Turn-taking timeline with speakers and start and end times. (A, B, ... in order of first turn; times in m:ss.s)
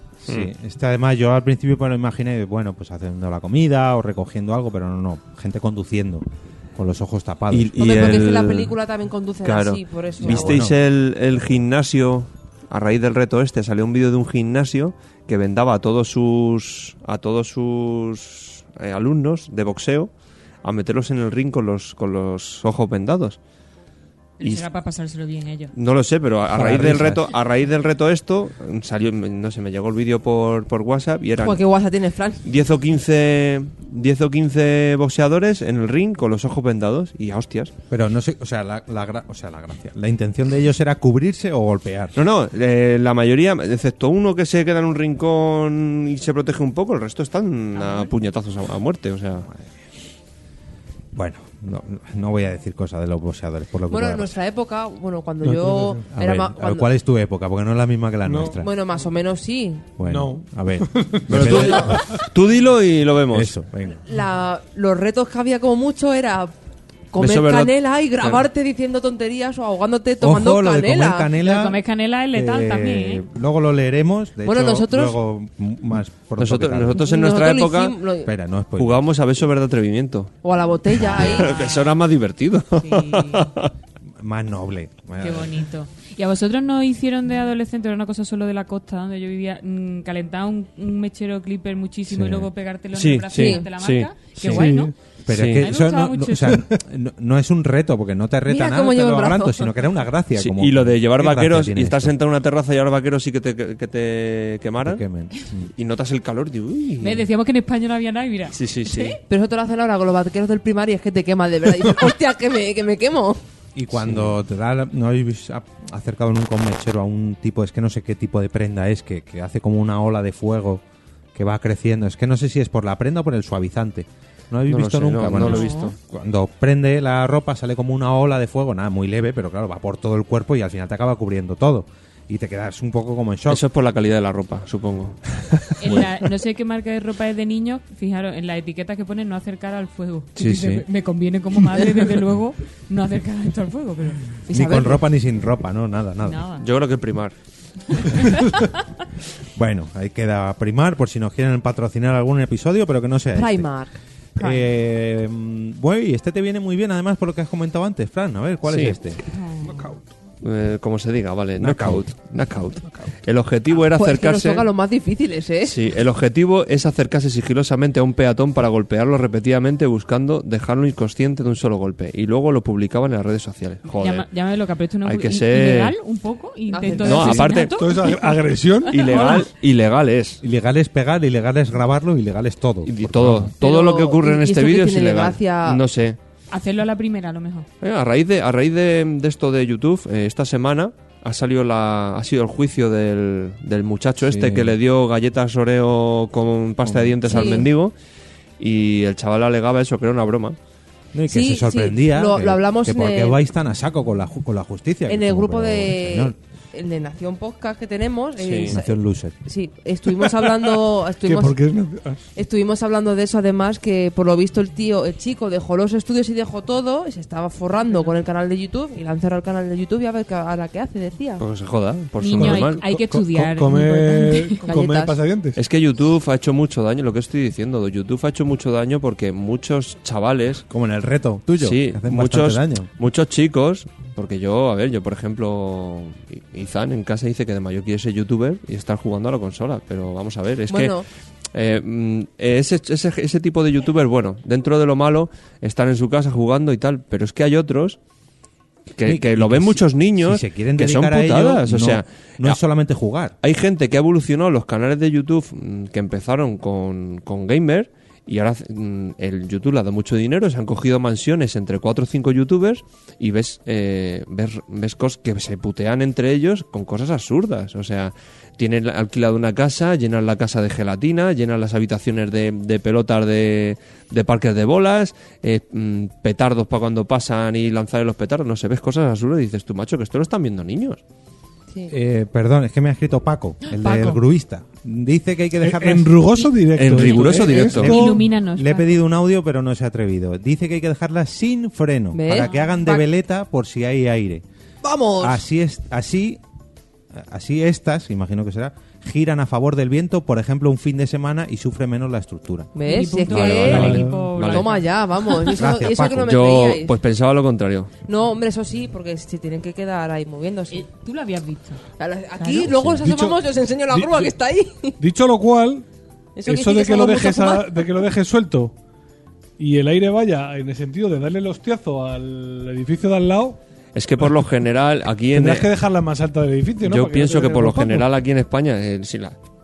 0:00.2-0:06.2 A
0:06.8-0:08.3 A
0:07.5-0:08.7 B
0:07.8-0:10.6 C
0:09.4-0:20.1 B
0:10.2-0:10.8 A
0:20.6-0:23.4 B
0:24.4-0:25.7 D
0:24.4-0:24.6 B
0:25.7-0:31.6 B
0:26.6-0:27.2 E
0:31.4-0:32.4 C
0:32.4-0:37.7 B
0:37.9-0:42.2 A
0:42.2-0:49.5 B
0:47.8-0:48.1 D
0:51.1-0:54.3 A
0:53.9-0:56.9 C
0:55.4-0:56.0 E
0:56.1-0:58.7 A
0:58.2-0:58.6 E
0:58.6-0:59.9 C
1:00.0-1:02.0 A
1:00.0-1:02.2 E
1:01.3-1:03.5 B
1:01.6-1:01.8 C
1:03.3-1:04.0 A
1:04.0-1:06.5 C
1:07.1-1:11.3 C
1:07.2-1:08.4 B
1:10.2-1:11.8 A
1:11.4-1:13.2 D
1:12.3-1:17.0 A
1:14.4-1:15.2 C
1:16.4-1:18.0 B
1:16.9-1:18.3 C
1:18.2-1:19.0 A
1:18.8-1:20.3 B
1:20.4-1:21.5 C
1:21.0-1:23.7 B
1:21.4-1:21.9 D
1:22.8-1:23.5 D
1:24.2-1:25.5 A
1:25.2-1:34.9 D
1:32.1-1:32.5 A
1:32.9-1:34.1 B
1:33.3-1:33.6 C
1:34.4-1:34.7 A
1:34.4-1:34.9 E
1:35.2-1:42.1 A
1:35.3-1:35.6 B
1:35.6-1:36.6 D
1:38.5-1:39.7 C
1:40.4-1:45.0 B
1:44.8-1:45.7 A
1:45.8-1:47.2 B
1:47.0-1:49.2 D
1:48.5-1:49.2 B
1:49.3-1:53.4 C
1:53.7-2:00.8 A
1:53.9-1:54.3 B
2:01.3-2:13.6 A
2:04.7-2:05.9 B
2:05.4-2:05.9 D
2:13.5-2:16.1 B
2:15.8-2:24.2 D
2:20.4-2:20.8 B
2:24.5-2:25.0 C
2:24.5-2:26.4 A
2:26.2-2:26.6 D
2:26.6-2:27.3 B
2:28.0-2:28.4 D
2:29.5-2:33.7 A
2:33.3-2:34.0 C
2:34.4-2:39.2 A
2:38.7-2:39.0 B
2:39.3-2:39.9 D
2:40.4-2:44.7 B
2:41.6-2:42.0 A
2:43.9-2:45.8 C
2:45.6-2:54.2 B
2:53.9-2:59.5 D
2:55.0-2:55.9 B
2:56.7-2:57.5 C
2:57.0-2:57.7 B
2:57.7-2:59.0 E
2:58.9-3:00.4 B
3:00.4-3:03.5 A
3:02.8-3:06.2 B
3:03.6-3:05.8 C
3:06.5-3:07.7 D
3:07.8-3:17.9 B
3:14.2-3:14.7 A
3:16.8-3:17.7 A
3:17.3-3:17.6 C
3:18.6-3:20.6 B
3:21.1-3:26.4 A
3:21.3-3:23.4 C
3:25.1-3:31.6 C
3:28.4-3:28.8 B
3:28.6-3:29.3 A
3:31.2-3:32.2 E
3:32.4-3:41.4 C
3:41.4-3:42.8 B
3:42.2-3:44.6 D
3:42.4-3:45.6 E
3:44.6-3:45.2 C
3:45.6-3:50.6 B
3:50.7-3:52.9 A
3:51.6-4:08.0 B
4:00.7-4:01.0 C
4:08.9-4:12.6 B
4:09.0-4:13.3 A
4:13.4-4:41.0 B
4:41.9-4:46.2 A
4:43.7-4:44.2 D
4:45.6-4:48.2 E
4:46.7-4:47.9 B
4:47.2-4:48.9 D
4:47.7-4:54.4 A
4:52.1-4:53.0 C
4:52.3-4:52.7 D
4:54.8-4:55.4 C
4:55.2-4:56.4 A
4:57.1-5:02.7 A
5:02.7-5:06.9 C
5:02.8-5:05.5 D
5:03.4-5:04.7 B
5:03.6-5:04.3 E
5:05.5-5:06.4 A
5:06.2-5:07.9 B
5:08.1-5:10.8 C
5:10.7-5:11.8 D
5:12.0-5:15.0 C
5:12.4-5:12.7 D
5:12.6-5:13.0 A
5:13.0-5:13.4 E
5:13.9-5:14.3 E
5:15.0-5:15.8 E
5:16.4-5:17.9 C
5:16.4-5:18.7 E
5:19.6-5:23.6 E
5:23.9-5:25.7 B
5:25.3-5:28.1 E
5:26.8-5:29.4 B